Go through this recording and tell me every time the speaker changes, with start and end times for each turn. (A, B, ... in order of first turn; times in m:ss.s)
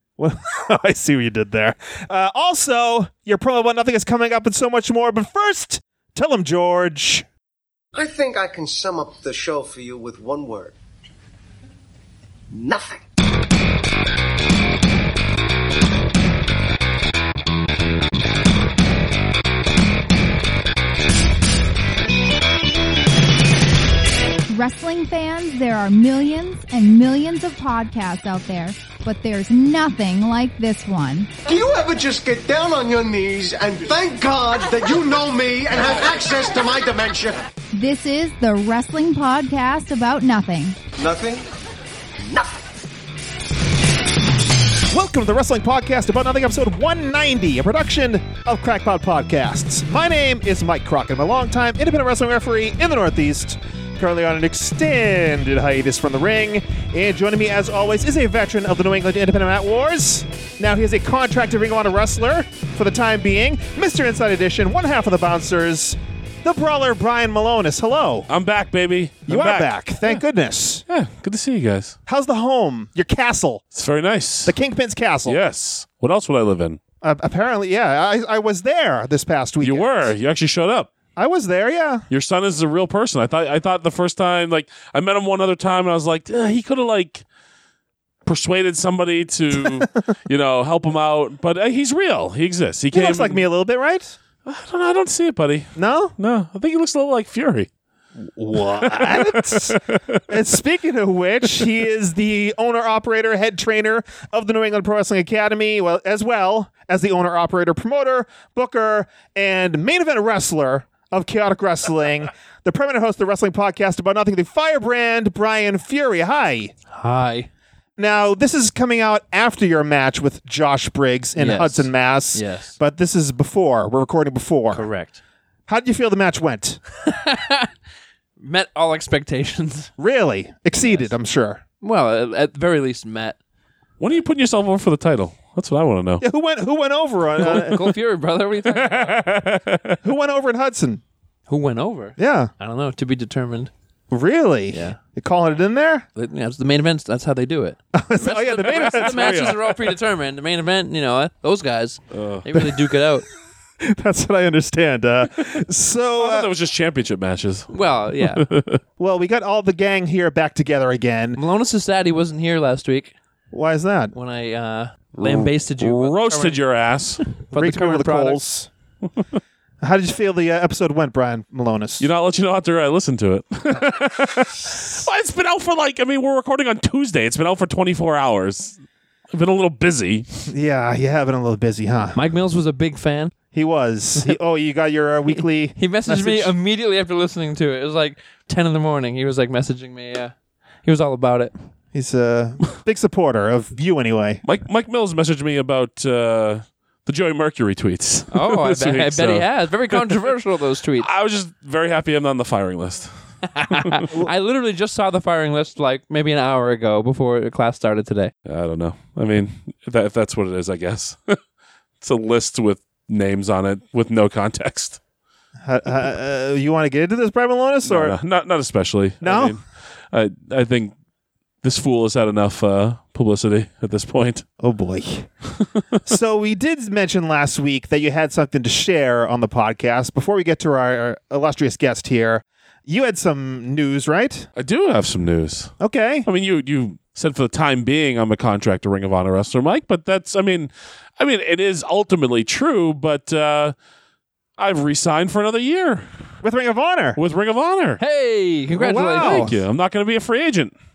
0:00.2-0:07.2 A
0:07.9-0:10.7 B
0:12.5-0:13.0 B
0:24.5-0:31.3 C
0:31.4-0:37.5 B
0:37.7-0:40.8 C
0:41.0-0:41.4 B
0:42.2-0:42.6 B
0:44.9-1:08.3 A
1:08.3-1:10.2 D
1:09.3-1:10.8 A
1:10.9-1:12.0 D
1:12.1-1:13.6 A
1:13.7-1:14.5 D
1:14.4-1:15.4 A
1:15.2-1:16.8 D
1:17.0-1:20.1 A
1:19.6-1:20.9 D
1:21.2-1:22.0 A
1:22.1-1:27.2 D
1:28.2-1:33.5 D
1:32.9-1:34.2 A
1:34.4-1:37.7 D
1:35.8-1:36.1 A
1:38.3-1:56.7 A
1:38.8-1:40.2 D
1:56.9-1:57.5 E
1:58.0-2:04.8 A
2:01.4-2:02.8 E
2:04.7-2:05.2 E
2:05.7-2:06.8 A
2:07.0-2:07.7 E
2:08.4-2:09.9 E
2:10.0-2:11.6 A
2:10.8-2:11.1 E
2:11.8-2:13.4 E
2:14.0-2:16.2 D
2:16.2-2:17.9 A
2:17.4-2:19.2 E
2:18.6-2:20.0 D
2:20.0-2:21.0 A
2:21.5-2:23.7 E
2:22.2-2:22.5 A
2:24.1-2:26.0 A
2:24.7-2:25.0 E
2:26.2-2:33.2 E
2:27.9-2:29.8 A
2:32.1-2:32.5 D
2:33.8-2:36.5 A
2:36.2-2:38.8 D
2:37.7-2:38.4 E
2:39.0-2:41.4 A
2:41.4-2:43.1 E
2:43.5-2:44.1 A
2:44.1-2:46.6 E
2:45.1-2:47.2 D
2:47.4-2:48.4 E
2:47.5-2:48.7 A
2:49.8-2:52.1 A
2:52.0-2:58.8 D
2:59.3-3:00.3 D
3:00.5-3:02.2 A
3:02.1-3:03.4 E
3:03.5-3:06.5 A
3:05.3-3:11.5 E
3:11.9-3:14.4 A
3:14.4-3:20.2 D
3:18.3-3:21.1 E
3:21.0-3:23.1 D
3:23.5-3:28.3 E
3:23.7-3:24.1 D
3:28.4-3:31.4 D
3:32.0-3:35.0 D
3:35.6-3:38.2 A
3:37.8-3:40.9 D
3:39.2-3:39.6 A
3:41.6-3:44.4 D
3:44.6-3:45.3 A
3:46.0-3:54.5 A
3:54.6-3:55.7 D
3:55.8-3:56.3 A
3:56.2-4:03.7 D
4:04.6-4:06.1 D
4:06.4-4:07.2 A
4:07.2-4:08.0 D
4:08.0-4:09.5 E
4:08.8-4:09.6 A
4:09.2-4:10.7 D